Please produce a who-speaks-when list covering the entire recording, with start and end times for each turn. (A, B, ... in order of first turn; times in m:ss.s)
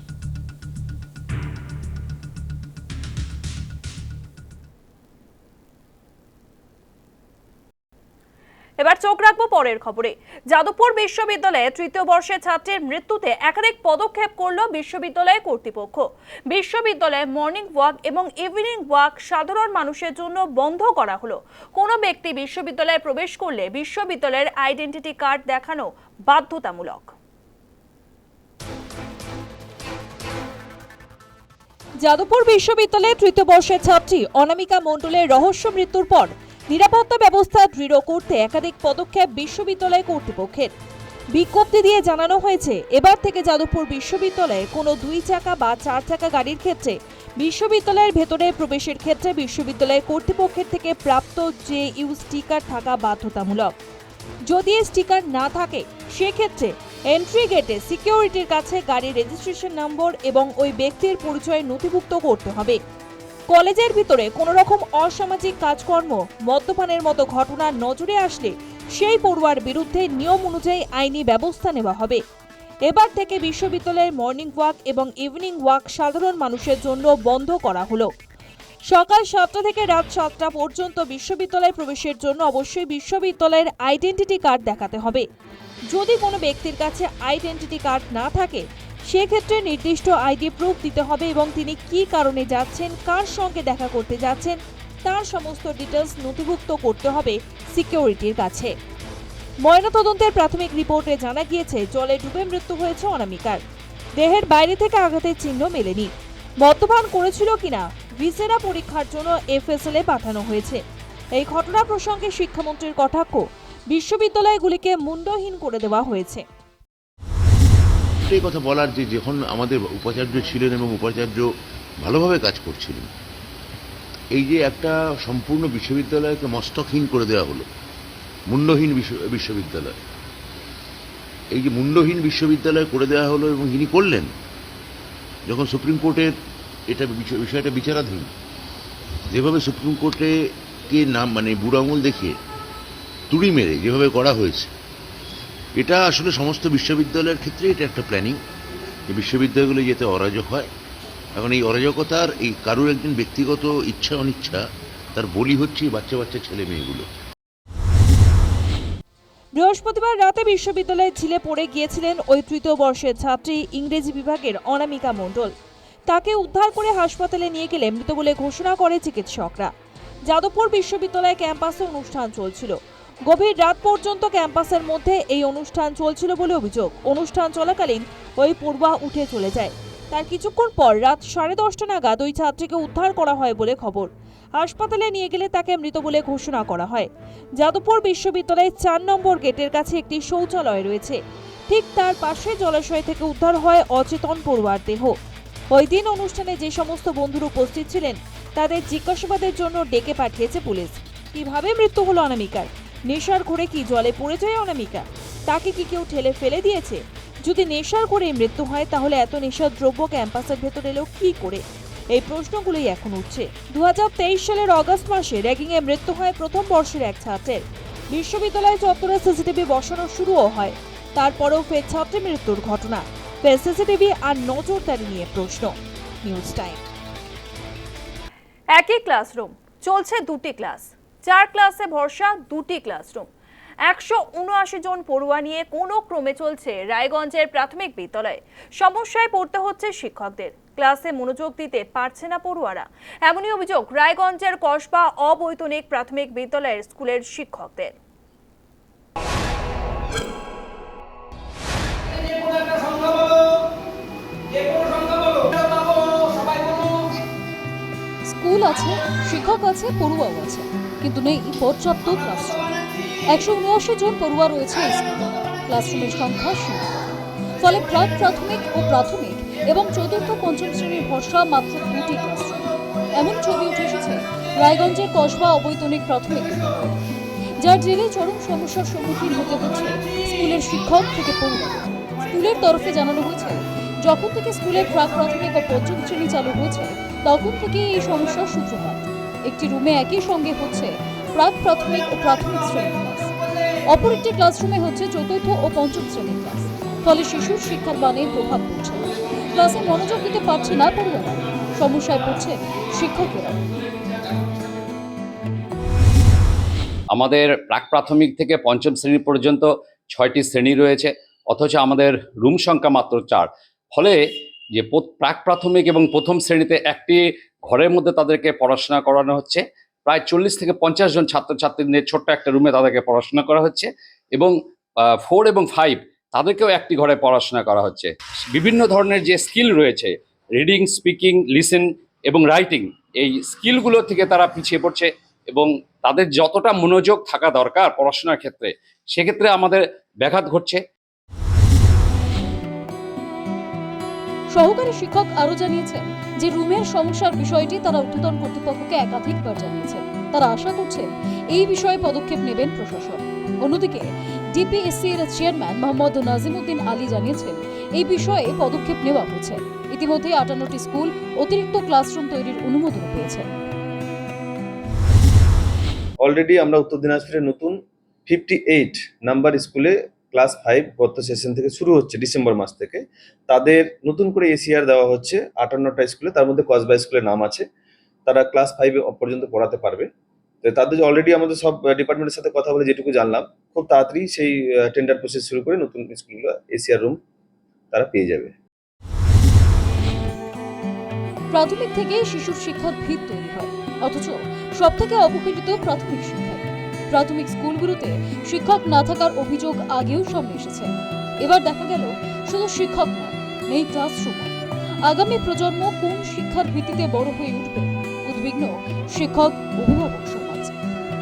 0:08.8-0:25.8 A
0:21.8-0:27.1 B
0:26.4-0:26.7 A
0:32.0-0:40.7 B
0:41.3-0:53.7 B
0:54.5-1:02.8 B
1:03.5-1:12.2 B
1:12.9-1:18.1 B
1:18.9-1:25.2 B
1:25.9-1:38.7 B
1:39.6-1:43.6 B
1:44.2-1:46.1 B
1:46.6-1:50.8 B
1:51.4-1:56.4 B
1:58.3-2:01.4 C
2:02.0-2:03.1 C
2:04.4-2:07.7 C
2:08.5-2:10.0 C
2:11.5-2:14.3 C
2:15.5-2:16.3 C
2:16.9-2:18.3 C
2:19.3-2:20.3 C
2:20.9-2:22.4 C
2:23.3-2:24.7 C
2:25.8-2:28.4 C
2:29.1-2:30.7 C
2:31.4-2:34.6 C
2:35.1-2:37.0 C
2:39.6-2:45.5 B
2:46.1-2:49.7 B
2:50.3-2:52.8 B
2:53.3-3:07.1 B
3:07.6-3:11.2 B
3:11.7-3:15.1 B
3:15.7-3:31.6 B
3:32.1-3:46.8 B
3:48.7-3:53.2 B
3:48.8-3:49.4 A
3:50.0-3:53.2 A
3:53.9-3:57.1 B
3:53.9-4:07.9 A
3:57.6-3:58.3 B
3:59.6-4:02.8 B
4:03.7-4:05.0 B
4:05.6-4:07.4 B
4:18.3-4:22.7 D
4:23.3-4:27.0 D
4:27.6-4:32.6 D
4:33.2-4:36.9 D
4:37.6-4:53.3 D
4:53.9-5:03.6 D
5:07.1-5:14.2 E
5:14.8-5:40.8 E
5:44.5-6:03.5 D
6:06.2-6:17.6 F
6:18.3-6:20.1 F
6:20.6-6:27.2 F
6:27.9-6:28.5 F
6:31.5-6:44.5 D
6:45.1-6:50.7 D